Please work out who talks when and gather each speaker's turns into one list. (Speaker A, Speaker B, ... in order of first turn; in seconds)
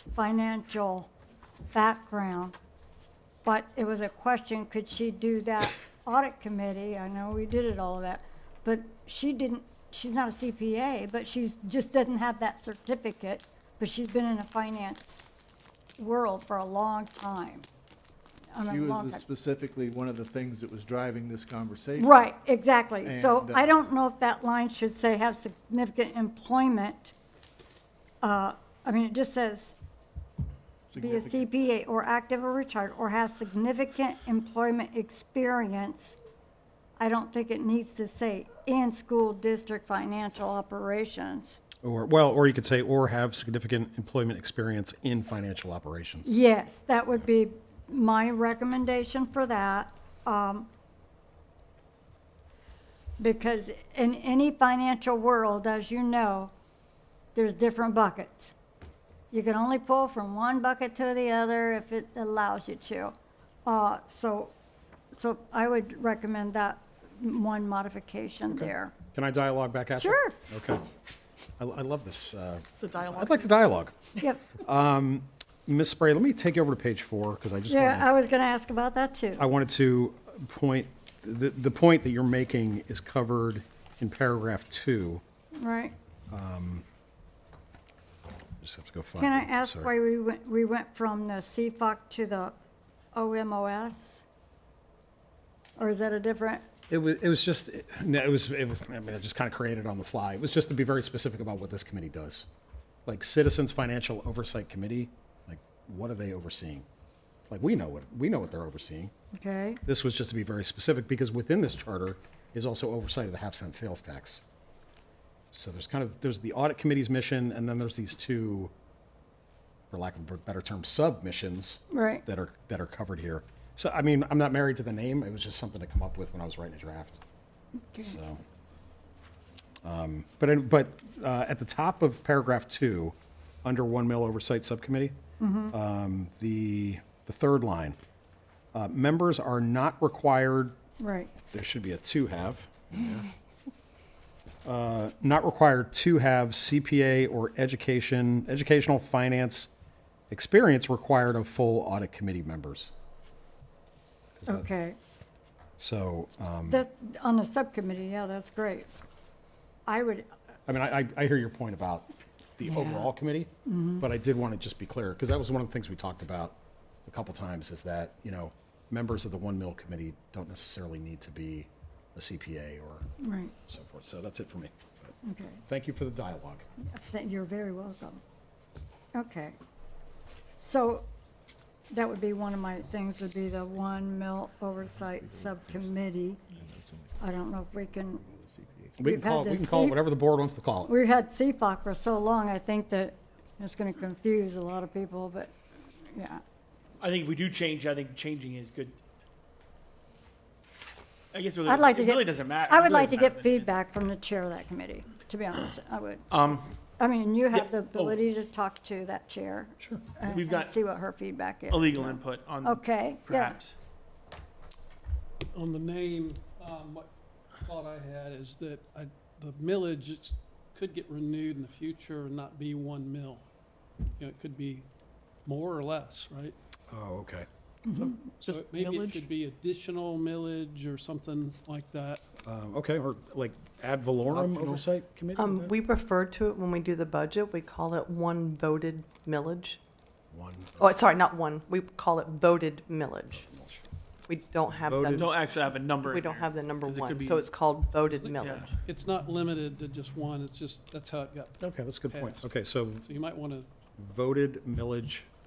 Speaker A: 0.1-1.1, 1.7-2.5, 3.4-15.2, 16.0-17.7, 18.5-19.2, 22.0-27.1, 28.2-29.8, 31.0-36.2, 37.0-41.6, 46.2-50.7, 53.2-56.5, 57.3-58.5, 59.3-63.1, 63.6-64.5, 65.1-68.9, 70.0-70.3, 77.7-79.4, 85.6-85.9, 89.2-92.5, 93.1-94.2, 95.8-96.6, 109.3-109.8, 121.9-122.2, 127.8-128.2, 135.4-135.7, 141.0-141.3, 154.5-155.0, 156.7-158.9, 159.9-160.3, 162.7-163.1, 163.7-164.1, 173.2-173.5, 175.2-175.6, 176.8-178.2, 179.1-179.6, 180.6-181.1, 181.9-186.4, 187.2-188.2, 189.0-190.0, 190.9-195.5, 196.1-196.4, 201.7-206.2, 207.0-213.6, 227.9-228.1
Speaker B: 18.6-22.3, 23.0-23.9, 30.9-31.4, 185.0-185.9, 186.5-187.2, 188.2-189.1
Speaker C: 41.8-46.3, 68.5-70.8, 71.6-73.9, 74.6-78.1, 79.4-85.2, 86.3-86.8, 88.6-89.9, 96.9-102.5, 103.0-106.8, 107.5-109.1, 109.8-114.4, 115.5-118.7, 119.9-127.2, 128.0-128.4, 129.8-135.1, 135.7-138.0, 138.7-140.8, 141.5-143.2, 144.6-149.7, 150.3-152.9, 154.4-154.7, 155.8-156.8, 160.7-173.1, 173.7-175.1, 175.7-176.7, 189.0-190.9, 209.8-210.1, 226.9-227.5, 232.4-235.7, 240.3-240.9, 243.3-243.8, 244.8-245.3, 251.6-253.1, 254.0-255.3
Speaker D: 72.8-73.5, 234.3-234.8, 235.3-239.8, 240.8-243.4, 244.3-248.7
Speaker E: 197.0-199.0, 201.3-203.7, 206.3-206.6, 207.5-208.2, 210.2-210.7, 211.7-213.7, 228.4-229.3, 245.1-247.5, 248.4-248.7
Speaker F: 215.5-223.4, 224.2-224.8, 225.4-226.5, 228.4-232.2, 248.1-252.5, 253.0-253.7